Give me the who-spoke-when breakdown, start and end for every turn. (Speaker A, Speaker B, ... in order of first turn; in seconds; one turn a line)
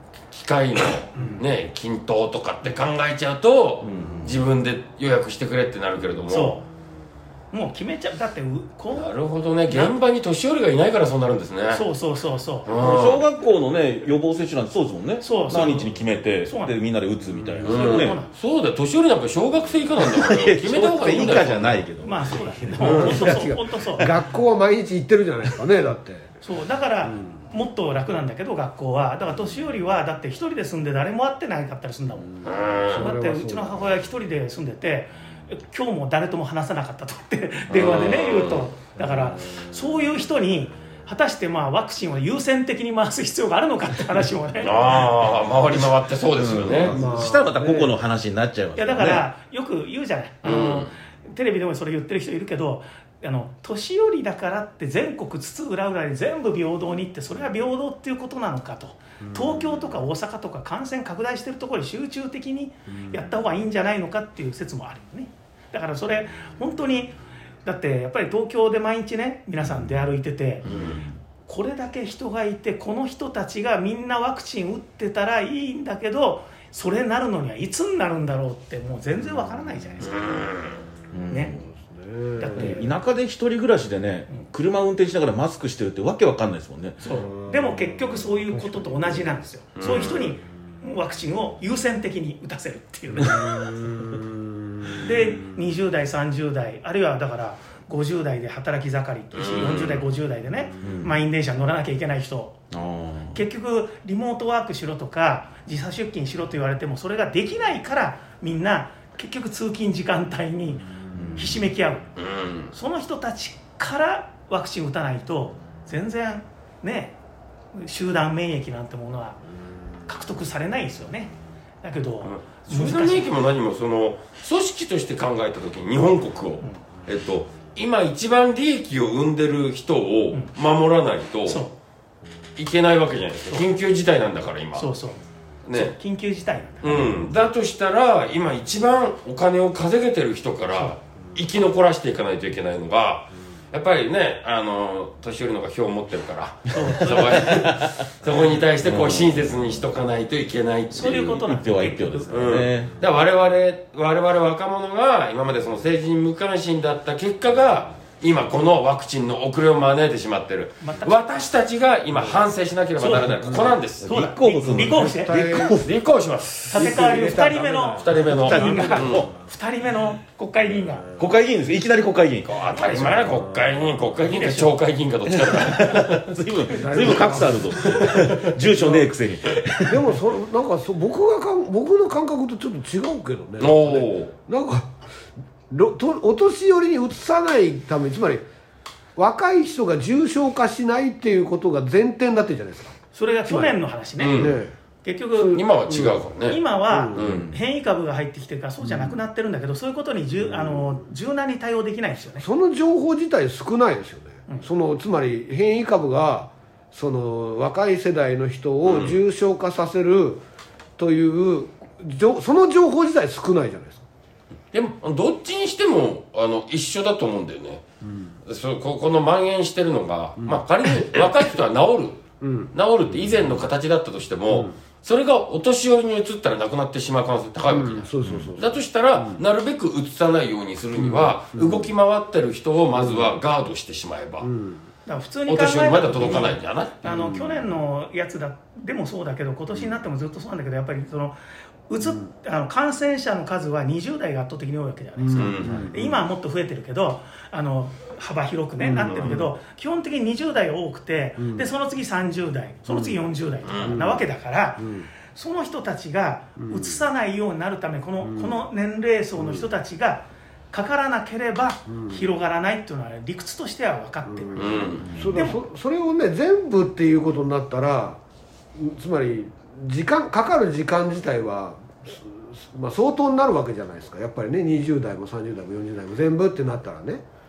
Speaker A: 0.3-6.6
Speaker B: 1.1-1.4
Speaker C: 3.8-4.4
Speaker B: 6.3-6.6
Speaker B: 7.5-9.1
Speaker A: 8.9-11.8
Speaker B: 9.7-9.9
Speaker B: 11.7-12.7
Speaker A: 12.7-13.2
Speaker C: 12.8-18.2
Speaker B: 15.2-16.7
Speaker A: 17.6-21.8
Speaker B: 17.6-18.3
Speaker C: 20.0-24.2
Speaker B: 22.0-24.1
Speaker D: 22.8-26.3
Speaker B: 26.4-32.4
Speaker D: 27.1-27.3
Speaker A: 32.4-33.1
Speaker D: 32.8-34.0
Speaker B: 32.9-44.9
Speaker A: 37.7-38.7
Speaker A: 44.6-46.9
Speaker C: 45.7-49.3
Speaker D: 46.7-47.9
Speaker B: 48.8-70.6
Speaker A: 50.4-50.9
Speaker D: 59.2-59.8
Speaker D: 62.9-63.2
Speaker A: 70.6-71.0
Speaker C: 70.7-71.2
Speaker B: 71.5-80.4
Speaker A: 80.0-80.8
Speaker C: 81.1-81.6
Speaker B: 81.3-81.6
Speaker D: 81.6-82.8
Speaker B: 82.4-82.9
Speaker C: 82.5-87.0
Speaker B: 87.0-93.7
Speaker D: 87.3-89.4
Speaker A: 89.8-90.3
Speaker D: 93.5-94.2
Speaker B: 95.0-102.6
Speaker A: 99.3-100.0
Speaker C: 100.8-101.1
Speaker C: 102.7-103.4
Speaker B: 103.3-112.1
Speaker C: 111.1-111.6
Speaker A: 112.2-112.7
Speaker B: 112.7-117.1
Speaker B: 117.7-119.4
Speaker B: 120.1-123.3
Speaker A: 122.2-131.6
Speaker B: 131.4-131.7
Speaker A: 132.6-134.9
Speaker B: 134.7-135.2
Speaker A: 135.6-135.9
Speaker B: 135.7-137.2
Speaker A: 136.8-151.3
Speaker B: 146.7-147.6
Speaker C: 146.9-148.0
Speaker C: 148.8-149.5
Speaker B: 150.9-152.4
Speaker C: 151.0-152.9
Speaker A: 152.3-164.1
Speaker B: 160.8-161.2
Speaker B: 163.0-163.4
Speaker D: 163.5-163.8
Speaker C: 164.0-165.9
Speaker B: 164.0-165.4
Speaker D: 164.7-165.8
Speaker A: 165.8-166.9
Speaker B: 166.7-171.1
Speaker D: 166.7-169.2
Speaker A: 167.9-169.3
Speaker C: 168.3-169.3
Speaker C: 171.2-172.6
Speaker A: 172.4-176.4
Speaker B: 172.7-173.3
Speaker B: 174.2-174.7
Speaker C: 175.3-180.2
Speaker D: 176.7-179.1
Speaker A: 176.9-178.5
Speaker D: 179.8-185.0
Speaker A: 183.6-184.3
Speaker D: 185.7-188.4
Speaker D: 189.2-193.8
Speaker B: 193.1-195.6
Speaker A: 194.2-194.6
Speaker D: 194.4-194.7
Speaker D: 195.3-196.2
Speaker A: 195.5-196.6
Speaker B: 196.5-202.4
Speaker D: 196.9-197.2
Speaker A: 197.1-197.5
Speaker C: 197.2-197.6
Speaker D: 200.5-201.0
Speaker D: 202.4-210.4
Speaker A: 208.8-209.2
Speaker D: 211.0-214.0
Speaker A: 214.7-217.8
Speaker D: 218.0-218.3
Speaker A: 218.4-222.2
Speaker D: 220.4-221.3
Speaker D: 222.4-222.7
Speaker A: 222.7-234.5
Speaker D: 227.7-229.4
Speaker C: 228.2-228.5
Speaker D: 230.9-231.9
Speaker D: 232.9-233.3
Speaker D: 234.4-234.8
Speaker B: 235.1-265.6
Speaker A: 235.5-237.0
Speaker D: 237.0-237.7
Speaker D: 245.2-246.2
Speaker A: 245.3-245.9
Speaker D: 248.8-249.5
Speaker A: 249.0-249.3
Speaker D: 251.4-251.7
Speaker D: 252.9-253.2
Speaker A: 253.6-254.0
Speaker D: 253.8-254.2
Speaker D: 254.8-255.1
Speaker D: 256.6-257.0
Speaker D: 258.2-258.6
Speaker D: 259.4-259.7
Speaker D: 261.9-262.2
Speaker D: 264.2-268.2
Speaker A: 264.6-265.1
Speaker C: 265.1-265.3
Speaker D: 268.8-277.2